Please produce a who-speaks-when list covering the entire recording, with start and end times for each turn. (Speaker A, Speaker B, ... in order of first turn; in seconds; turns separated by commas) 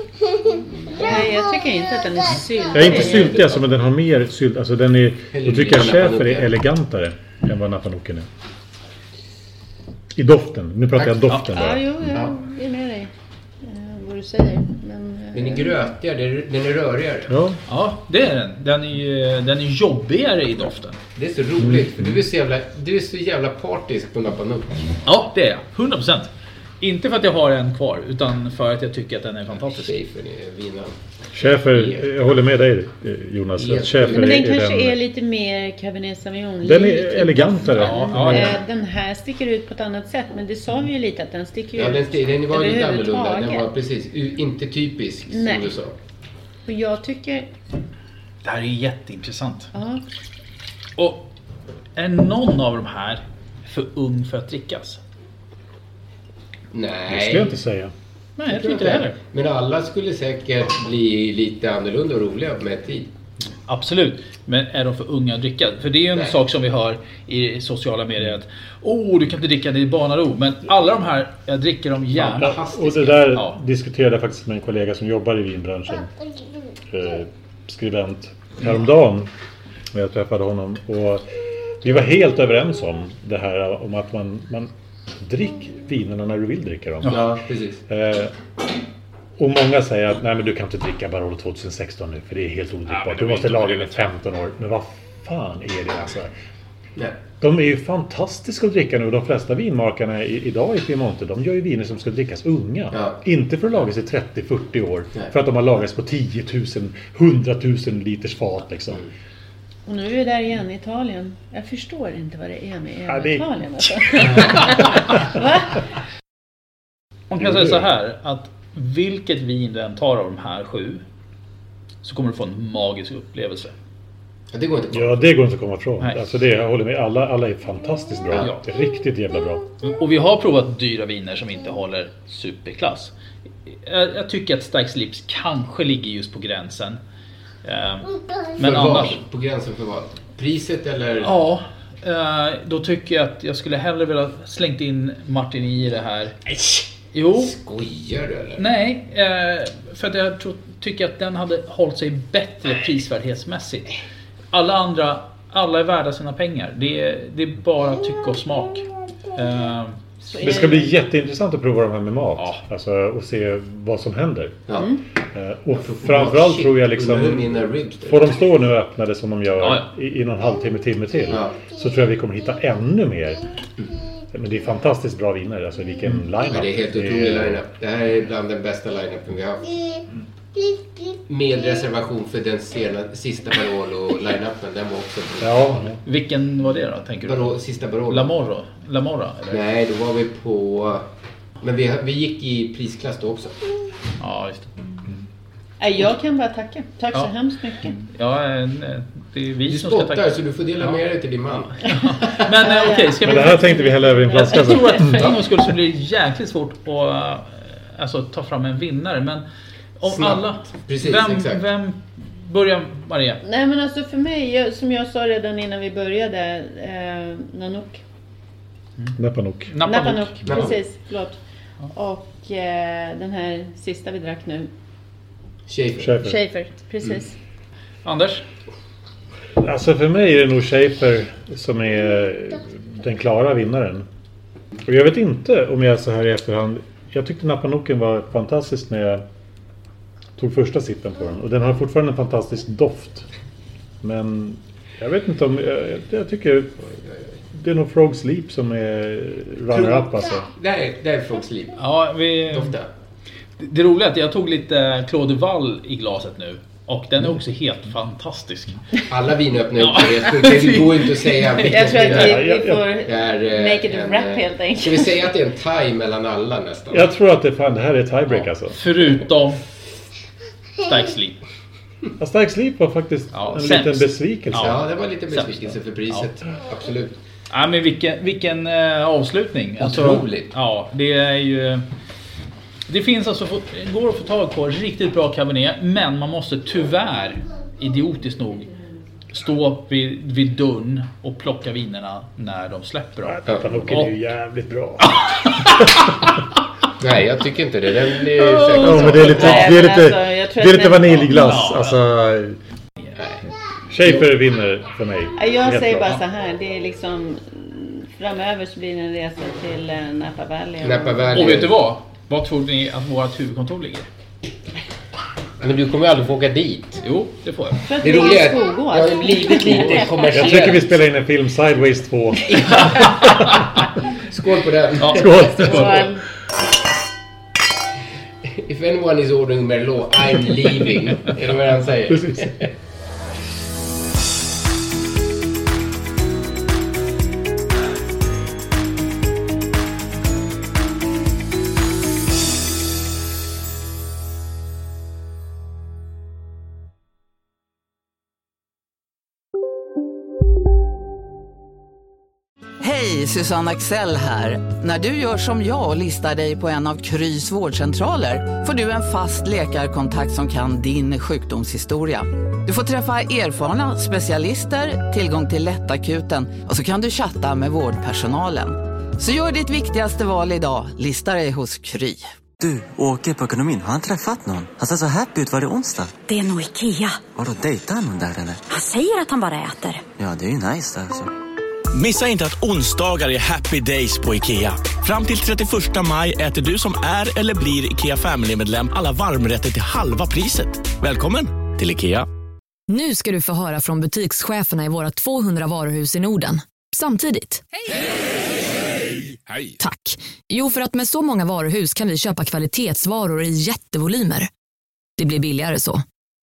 Speaker A: 0.9-3.3, Speaker B: 2.7-3.6, Speaker C: 2.7-8.3, Speaker B: 5.3-6.5, Speaker C: 10.1-12.2, Speaker B: 10.9-11.3, Speaker A: 11.5-13.1, Speaker A: 13.6-15.7, Speaker B: 15.3-17.3, Speaker C: 17.3-17.6, Speaker D: 17.7-21.0, Speaker B: 21.1-24.8, Speaker C: 21.6-22.2, Speaker D: 25.0-26.3, Speaker D: 26.8-29.9, Speaker B: 29.6-30.9, Speaker C: 31.3-35.0, Speaker B: 31.7-32.0, Speaker B: 33.6-34.4, Speaker A: 34.1-43.6, Speaker C: 36.6-38.6, Speaker D: 37.7-38.6, Speaker B: 41.7-45.9, Speaker A: 45.3-45.7, Speaker A: 46.7-47.5, Speaker D: 48.4-49.7, Speaker A: 49.7-50.0, Speaker D: 51.0-51.3, Speaker D: 52.0-55.0, Speaker B: 56.7-57.6, Speaker C: 57.1-57.9, Speaker D: 58.4-59.2, Speaker B: 58.5-63.1, Speaker D: 63.7-72.6, Speaker B: 72.2-73.3, Speaker C: 72.3-76.1, Speaker D: 73.2-73.6, Speaker C: 76.9-79.3, Speaker C: 79.9-81.2, Speaker C: 81.8-87.2, Speaker B: 87.1-87.8, Speaker C: 87.9-88.3, Speaker C: 89.4-96.3, Speaker D: 92.9-94.1, Speaker C: 97.4-109.0, Speaker B: 102.9-103.2, Speaker A: 109.8-115.8, Speaker C: 113.0-114.5, Speaker D: 117.3-121.0, Speaker C: 117.4-117.8, Speaker D: 122.0-123.7, Speaker B: 124.5-125.2, Speaker C: 124.9-129.6, Speaker D: 129.8-133.1, Speaker D: 133.7-137.0, Speaker D: 137.6-139.2, Speaker B: 138.6-141.3, Speaker D: 141.2-146.3, Speaker D: 147.1-147.5, Speaker B: 147.4-148.7, Speaker D: 148.6-153.9, Speaker D: 154.5-160.0, Speaker A: 160.3-160.9, Speaker C: 160.4-164.6, Speaker D: 162.4-162.6, Speaker C: 165.3-173.4, Speaker B: 165.7-168.4, Speaker D: 169.6-169.9, Speaker B: 171.3-171.6, Speaker C: 174.3-177.6, Speaker B: 176.1-179.8, Speaker B: 181.3-185.9, Speaker C: 185.4-186.0, Speaker D: 186.0-187.5, Speaker B: 187.2-188.3, Speaker D: 188.1-189.6, Speaker B: 189.5-191.1, Speaker B: 191.6-193.5, Speaker D: 194.2-194.7, Speaker A: 195.8-198.0, Speaker D: 197.1-200.3, Speaker B: 199.7-202.3, Speaker D: 201.9-203.7, Speaker A: 202.5-205.2, Speaker C: 203.2-205.3, Speaker D: 204.3-209.4, Speaker D: 210.0-213.4, Speaker B: 210.1-211.6, Speaker A: 213.4-218.0, Speaker C: 219.2-219.7, Speaker D: 219.7-220.7, Speaker A: 219.8-221.4, Speaker B: 220.5-220.8, Speaker A: 221.9-224.7, Speaker B: 225.7-226.2, Speaker C: 226.0-226.4, Speaker A: 226.2-227.3, Speaker D: 228.0-228.4, Speaker C: 229.6-234.1, Speaker C: 234.8-239.2, Speaker C: 240.4-243.2, Speaker C: 244.0-246.9, Speaker C: 247.5-250.5, Speaker B: 249.7-251.8, Speaker D: 251.8-252.7, Speaker B: 252.5-252.9, Speaker D: 253.6-258.8, Speaker B: 259.1-262.4, Speaker D: 259.8-261.7, Speaker A: 261.6-265.2, Speaker C: 262.0-262.9, Speaker B: 263.0-267.1, Speaker C: 266.9-268.8, Speaker D: 268.7-269.6, Speaker D: 270.8-271.4, Speaker C: 272.2-274.8, Speaker D: 273.3-274.8, Speaker B: 274.6-277.1, Speaker D: 275.3-276.3, Speaker D: 277.5-281.8, Speaker B: 279.8-280.5, Speaker D: 282.9-288.7, Speaker D: 289.3-294.1, Speaker C: 293.2-296.1, Speaker D: 295.1-296.4, Speaker B: 297.0-299.6, Speaker D: 298.4-299.7, Speaker C: 298.7-302.6, Speaker A: 298.8-301.6, Speaker D: 301.3-302.0, Speaker D: 303.1-303.4, Speaker C: 303.9-306.2, Speaker A: 305.4-311.6, Speaker B: 310.8-311.7, Speaker D: 311.3-314.1, Speaker B: 315.6-317.0, Speaker D: 317.0-317.8, Speaker A: 317.8-320.4, Speaker B: 318.0-320.9, Speaker D: 319.7-320.1, Speaker C: 320.3-323.6, Speaker D: 323.4-323.8, Speaker B: 324.3-325.9, Speaker D: 325.0-326.1, Speaker C: 325.1-326.2, Speaker A: 325.3-326.2, Speaker B: 328.6-332.7, Speaker C: 332.1-332.5, Speaker E: 352.8-372.2, Speaker F: 372.6-376.1, Speaker G: 376.3-377.3, Speaker F: 377.3-378.6, Speaker G: 378.7-380.0, Speaker F: 380.2-381.3, Speaker H: 381.9-392.3, Speaker I: 392.9-397.6, Speaker I: 399.8-404.5, Speaker I: 405.2-406.0